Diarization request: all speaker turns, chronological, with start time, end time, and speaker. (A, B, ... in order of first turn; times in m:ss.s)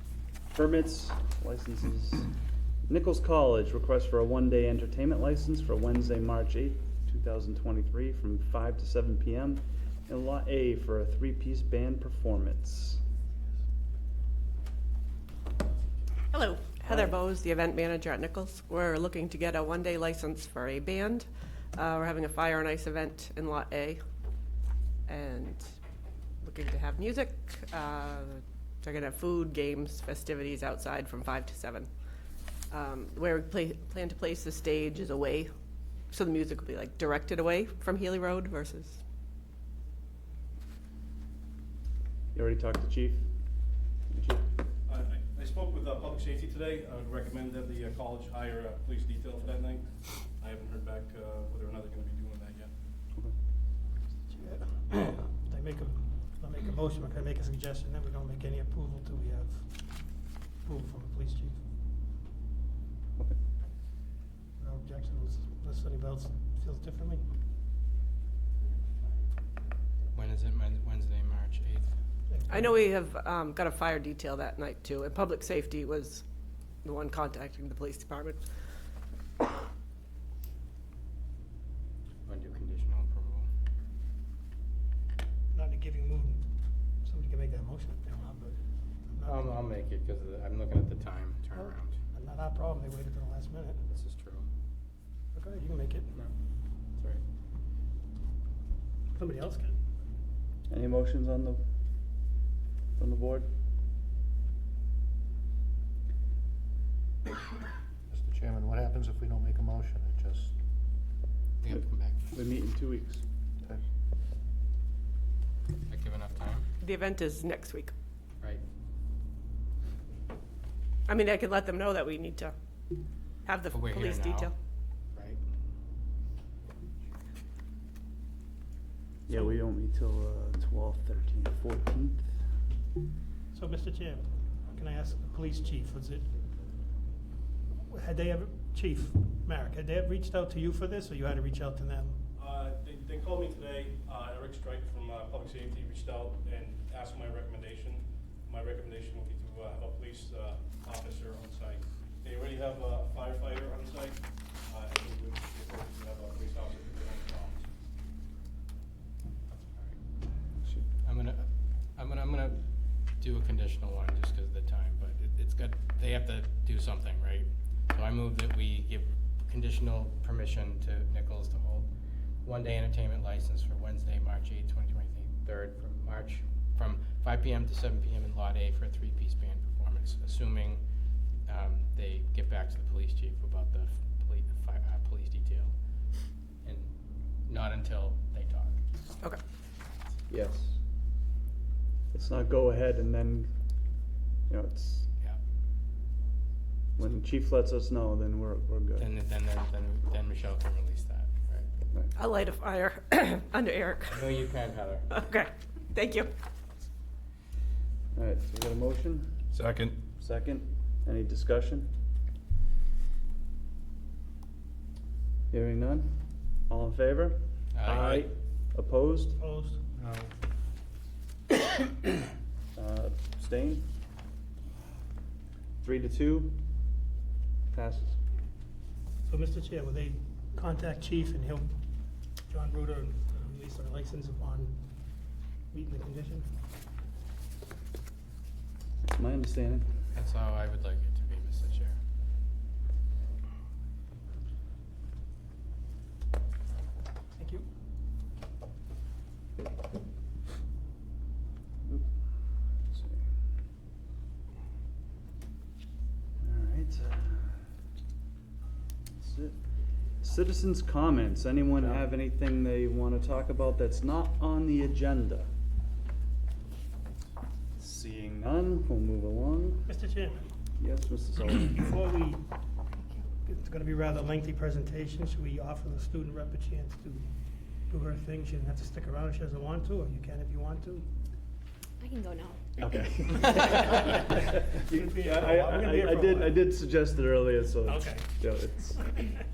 0:00.5-0:02.3 A
0:02.9-0:13.0 A
0:16.3-0:24.0 B
0:16.9-0:17.1 A
0:25.1-0:25.6 B
0:26.4-0:31.9 B
0:32.7-0:35.5 B
0:36.1-0:39.0 B
0:42.3-0:43.3 A
0:44.1-0:44.4 A
0:44.9-0:52.7 C
0:54.3-0:59.7 D
1:00.6-1:01.6 D
1:04.6-1:07.2 D
1:10.1-1:11.9 E
1:12.3-1:12.7 D
1:12.5-1:16.2 B
1:16.8-1:18.4 B
1:22.3-1:23.5 E
1:25.5-1:26.4 D
1:27.0-1:28.6 D
1:29.1-1:29.6 D
1:29.3-1:32.0 E
1:31.6-1:33.8 D
1:33.9-1:34.5 E
1:35.3-1:36.1 D
1:37.0-1:37.2 E
1:39.1-1:39.8 D
1:40.7-1:41.6 A
1:43.0-1:43.5 A
1:48.1-1:50.5 F
1:51.6-1:52.2 E
1:52.3-1:53.2 A
1:55.9-1:56.7 E
1:56.8-1:57.9 B
2:01.1-2:02.6 B
2:03.4-2:04.5 B
2:03.7-2:04.5 E
2:05.1-2:05.4 E
2:09.3-2:12.3 A
2:13.5-2:16.3 D
2:17.9-2:22.2 D
2:22.4-2:37.6 C
2:41.0-2:42.6 E
2:43.2-2:51.9 E
2:52.4-3:00.8 E
3:01.5-3:05.7 E
3:06.6-3:06.9 E
3:07.5-3:08.8 E
3:10.3-3:10.8 A
3:12.1-3:13.5 A
3:14.5-3:15.1 A
3:17.0-3:19.1 A
3:19.0-3:21.7 E
3:22.2-3:24.5 B
3:24.1-3:25.1 E
3:25.1-3:26.3 B
3:28.2-3:29.4 A
3:29.6-3:29.9 C
3:30.2-3:31.9 A
3:35.5-3:36.1 A
3:36.7-3:39.4 A
3:37.8-3:38.1 E
3:39.4-3:39.8 D
3:42.8-3:43.8 A
3:45.8-3:46.6 A
3:47.7-3:48.2 A
3:49.3-3:51.7 D
3:52.5-3:54.7 D
3:55.7-3:56.5 D
3:59.1-3:59.9 A
4:00.2-4:02.0 E
4:07.4-4:07.6 D
4:12.9-4:13.2 A
4:16.4-4:17.6 A
4:19.2-4:19.6 A
4:20.2-4:25.5 A
4:27.8-4:29.9 A
4:29.9-4:30.5 D
4:30.8-4:31.8 A
4:31.8-4:32.4 D
4:33.4-4:37.3 D
4:37.9-4:41.1 D
4:42.8-4:49.1 A
4:44.9-4:46.6 D
4:47.9-4:48.3 D